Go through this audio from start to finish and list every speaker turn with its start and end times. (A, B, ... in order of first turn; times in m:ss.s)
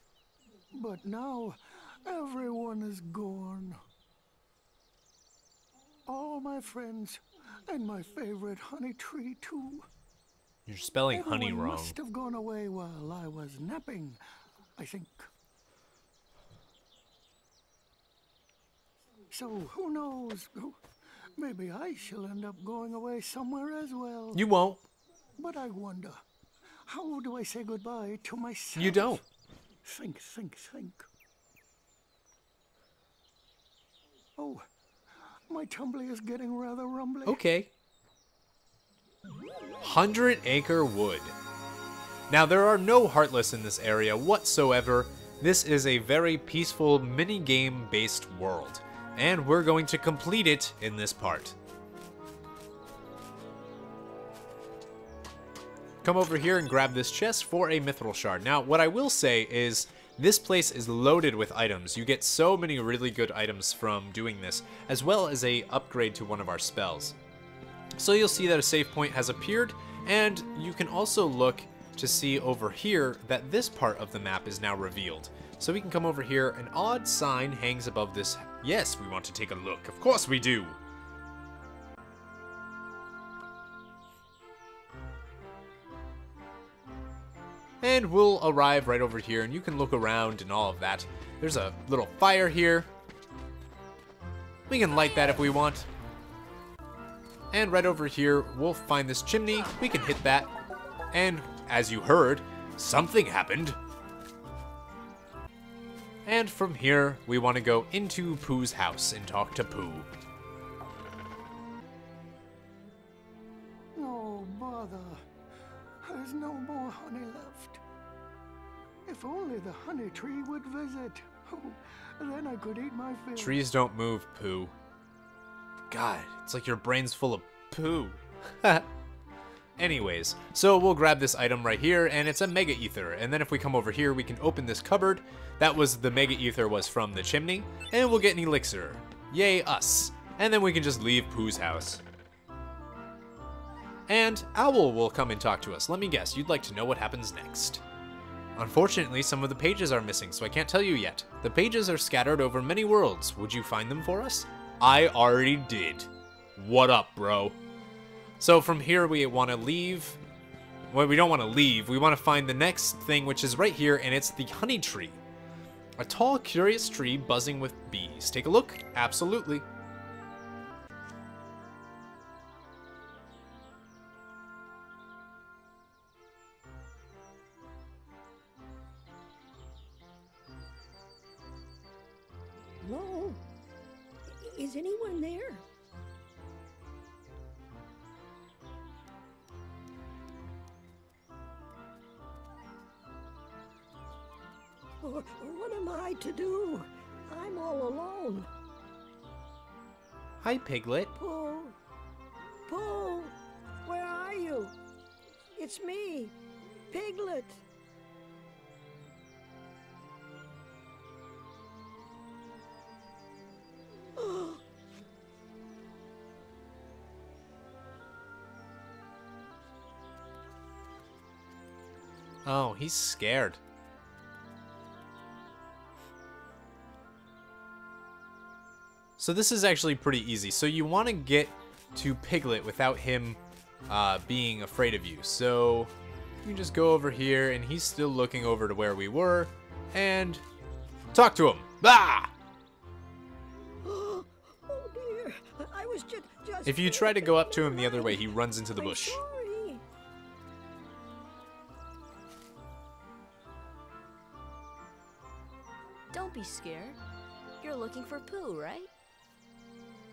0:00.7-0:03.8 A
0:06.0-0:09.9 A
0:10.7-0:12.0 B
0:11.1-0:14.2 A
0:14.8-0:15.3 A
0:19.3-0:20.8 A
0:21.4-0:24.4 A
0:24.3-0:24.8 B
0:25.4-0:26.2 A
0:26.8-0:29.2 A
0:28.8-0:29.2 B
0:29.8-0:31.0 A
0:34.4-0:37.4 A
0:37.2-0:37.7 B
0:39.8-0:41.3 B
0:42.3-0:51.6 B
0:56.0-1:07.2 B
1:08.0-1:20.8 B
1:27.8-1:32.9 B
1:34.7-1:35.9 B
1:37.5-1:40.5 B
1:41.1-1:43.8 B
1:46.2-1:50.1 B
1:53.9-1:55.2 A
1:56.0-1:57.8 A
1:59.0-2:03.6 A
2:03.4-2:04.7 B
2:05.9-2:08.9 B
2:09.8-2:22.0 B
2:24.1-2:27.8 B
2:28.6-2:37.6 B
2:38.4-2:40.2 B
2:40.9-2:45.2 B
2:46.0-2:49.6 B
3:02.8-3:03.4 C
3:04.2-3:05.6 C
3:15.0-3:18.5 C
3:20.4-3:21.1 B
3:21.2-3:21.8 C
3:22.7-3:23.3 C
3:23.8-3:24.7 C
3:25.6-3:26.3 C
3:26.9-3:27.6 C
3:34.2-3:34.6 C
3:42.4-3:43.6 B
3:49.2-3:55.9 B
3:56.4-4:00.4 B
4:01.1-4:02.3 B
4:03.8-4:09.8 C
4:06.6-4:09.2 B
4:16.1-4:17.0 D
4:17.6-4:18.9 D